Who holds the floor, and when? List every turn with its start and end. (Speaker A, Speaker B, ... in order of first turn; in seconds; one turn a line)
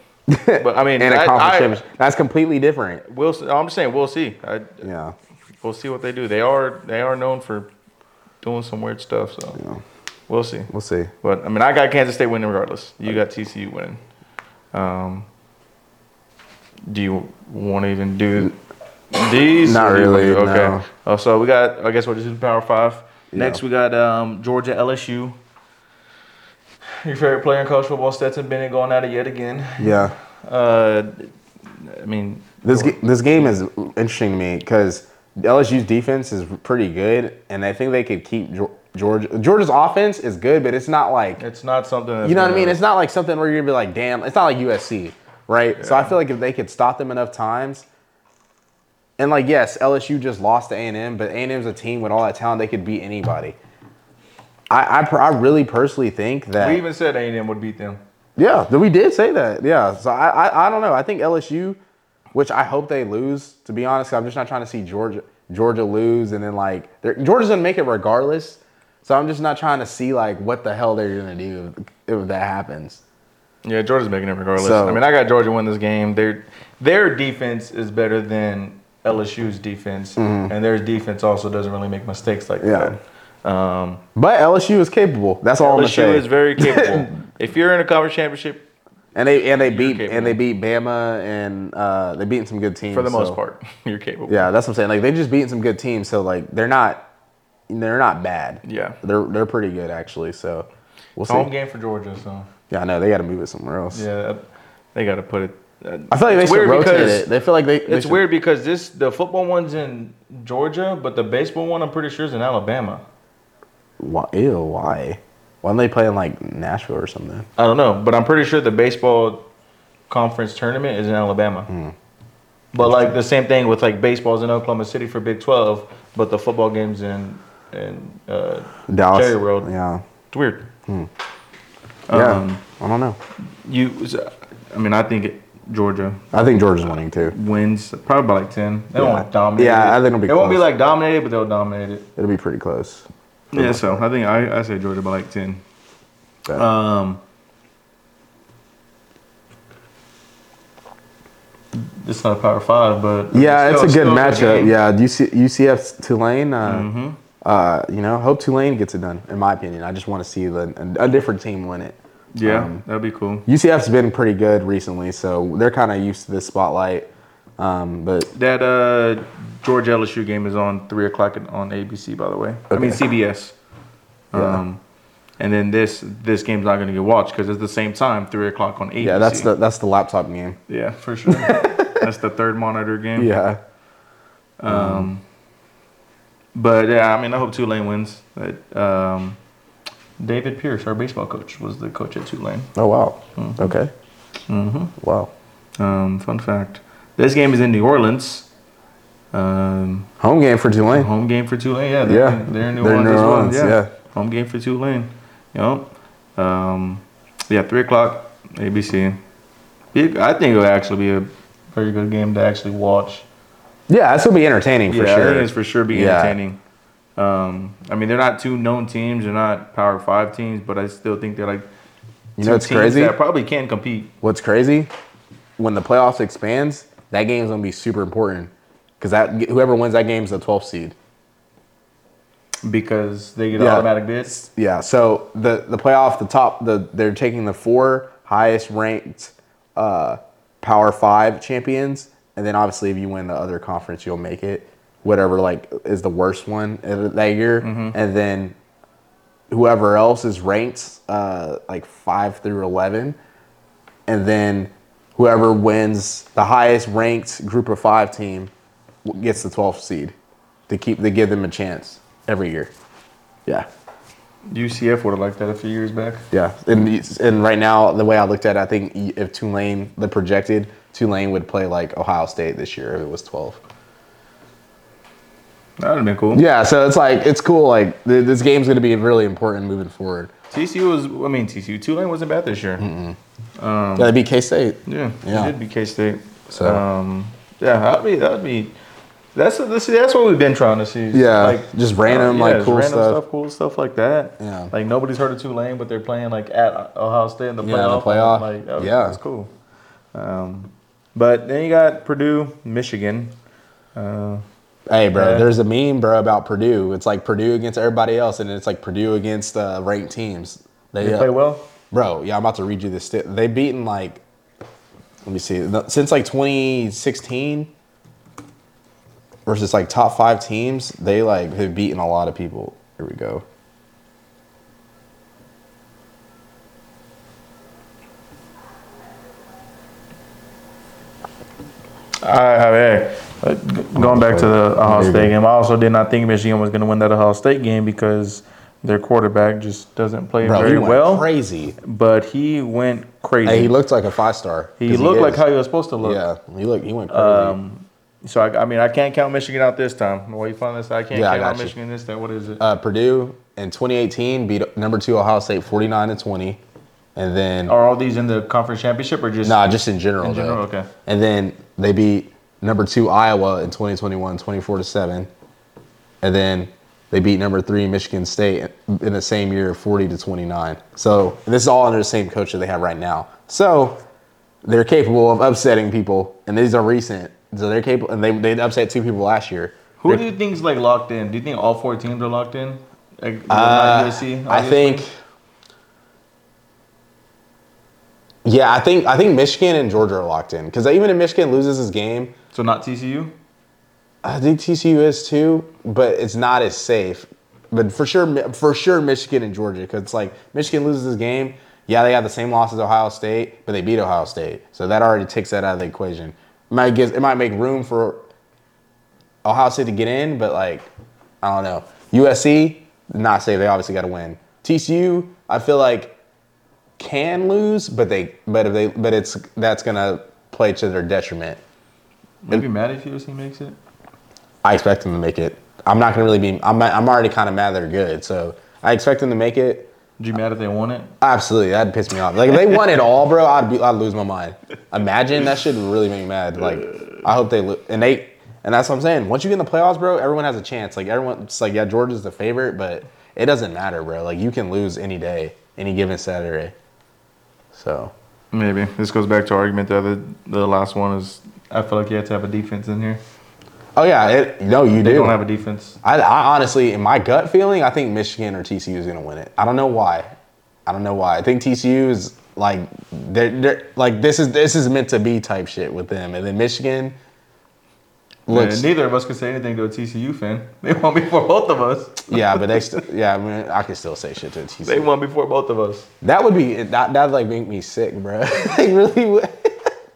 Speaker A: 0.3-3.0
Speaker B: 0.6-1.8
Speaker B: 3.0-4.9
Speaker A: 4.8-5.2
Speaker B: 5.6-7.7
Speaker B: 8.4-9.6
Speaker B: 10.3-10.7
Speaker A: 10.7-11.1
Speaker B: 11.2-14.0
Speaker B: 14.7-15.3
Speaker B: 16.9-18.6
Speaker B: 19.1-25.4
Speaker A: 19.6-20.9
Speaker A: 23.3-23.6
Speaker B: 27.0-33.0
Speaker A: 29.8-30.1
Speaker A: 32.6-41.4
Speaker B: 41.4-42.8
Speaker A: 42.2-47.9
Speaker B: 45.8-46.1
Speaker A: 49.2-53.6
Speaker A: 54.7-56.8
Speaker B: 56.6-58.0
Speaker A: 58.4-61.8
Speaker A: 62.3-73.0
Speaker B: 73.6-84.0
Speaker A: 74.6-75.0
Speaker A: 80.2-80.5
Speaker A: 82.6-83.0
Speaker A: 84.2-87.1
Speaker B: 85.6-88.7
Speaker A: 89.2-93.4
Speaker B: 89.6-90.4
Speaker B: 92.9-94.5
Speaker A: 94.3-97.1
Speaker A: 97.7-101.5
Speaker B: 98.6-99.0
Speaker B: 101.3-102.5
Speaker A: 102.7-104.0
Speaker B: 103.9-107.3
Speaker A: 106.1-108.2
Speaker B: 107.8-113.0
Speaker A: 114.0-117.5
Speaker B: 117.6-119.5
Speaker B: 120.1-121.7
Speaker A: 121.7-122.0
Speaker B: 122.7-129.7
Speaker A: 122.8-123.2
Speaker A: 128.9-130.0
Speaker B: 130.3-130.7
Speaker B: 132.1-132.6
Speaker A: 132.1-133.2
Speaker B: 133.6-136.2
Speaker A: 136.3-137.3
Speaker B: 137.3-142.1
Speaker A: 139.0-140.7
Speaker A: 142.2-143.9
Speaker B: 143.5-145.6
Speaker B: 146.5-147.2
Speaker B: 151.7-154.8
Speaker A: 153.3-156.9
Speaker B: 156.6-157.2
Speaker A: 157.4-162.8
Speaker B: 162.3-163.5
Speaker A: 163.5-168.3
Speaker B: 168.3-173.6
Speaker A: 172.7-173.0
Speaker B: 174.3-174.8
Speaker A: 174.3-174.6
Speaker B: 175.4-179.5
Speaker A: 179.0-180.6
Speaker B: 180.7-183.3
Speaker A: 181.3-182.1
Speaker A: 183.2-183.6
Speaker B: 184.6-185.2
Speaker A: 184.7-185.1
Speaker B: 186.6-189.4
Speaker B: 190.2-192.7
Speaker A: 192.8-193.9
Speaker B: 193.4-193.7
Speaker B: 194.5-194.9
Speaker A: 195.0-195.3
Speaker B: 195.8-198.5
Speaker B: 199.3-200.1
Speaker A: 200.2-201.1
Speaker B: 200.9-209.2
Speaker A: 202.1-203.9
Speaker B: 209.9-213.3
Speaker A: 213.9-216.4
Speaker B: 214.9-216.6
Speaker B: 217.2-221.7
Speaker A: 222.4-223.2
Speaker B: 222.4-224.1
Speaker A: 224.2-224.9
Speaker A: 225.6-230.9
Speaker B: 232.6-234.4
Speaker A: 233.6-248.6
Speaker B: 247.6-248.0
Speaker A: 249.5-253.2
Speaker A: 254.1-258.5
Speaker A: 259.1-260.1
Speaker A: 260.7-262.7
Speaker B: 264.5-266.2
Speaker A: 266.3-273.6
Speaker B: 275.8-276.4
Speaker A: 276.3-280.3
Speaker B: 280.5-282.9
Speaker A: 282.8-283.2
Speaker B: 283.6-284.1
Speaker A: 284.0-285.5
Speaker B: 284.9-288.7
Speaker A: 286.5-286.8
Speaker B: 289.4-299.5
Speaker A: 291.1-293.2
Speaker A: 294.4-294.7
Speaker A: 297.6-299.2
Speaker B: 300.1-303.4
Speaker B: 303.9-304.4
Speaker A: 304.9-311.3
Speaker B: 305.1-305.5
Speaker B: 311.0-311.7
Speaker A: 311.9-314.2
Speaker A: 315.2-317.7
Speaker A: 319.5-323.4
Speaker B: 332.2-341.3
Speaker A: 334.0-335.3
Speaker A: 340.4-341.8
Speaker B: 341.8-343.7
Speaker A: 343.5-345.4
Speaker B: 344.8-346.2
Speaker A: 346.0-347.6
Speaker B: 347.1-352.6
Speaker A: 351.1-351.8
Speaker A: 352.6-356.6
Speaker A: 357.2-357.7
Speaker B: 357.7-360.9
Speaker A: 359.4-365.3
Speaker A: 366.2-374.0
Speaker A: 374.6-380.2
Speaker B: 380.0-385.1
Speaker A: 383.5-385.1
Speaker A: 388.4-392.3
Speaker B: 392.5-393.4
Speaker A: 394.2-408.2
Speaker A: 409.4-410.9
Speaker A: 411.4-416.1
Speaker A: 417.0-421.6
Speaker B: 422.4-423.8
Speaker A: 424.6-429.9
Speaker B: 430.2-431.1
Speaker A: 431.2-446.7
Speaker A: 447.7-448.1
Speaker B: 448.5-453.2
Speaker A: 454.0-455.4
Speaker B: 455.0-456.0
Speaker A: 456.0-460.3
Speaker A: 460.9-467.2
Speaker A: 468.5-468.9
Speaker B: 468.5-472.8
Speaker A: 472.3-475.1
Speaker B: 474.8-476.1
Speaker A: 476.2-479.9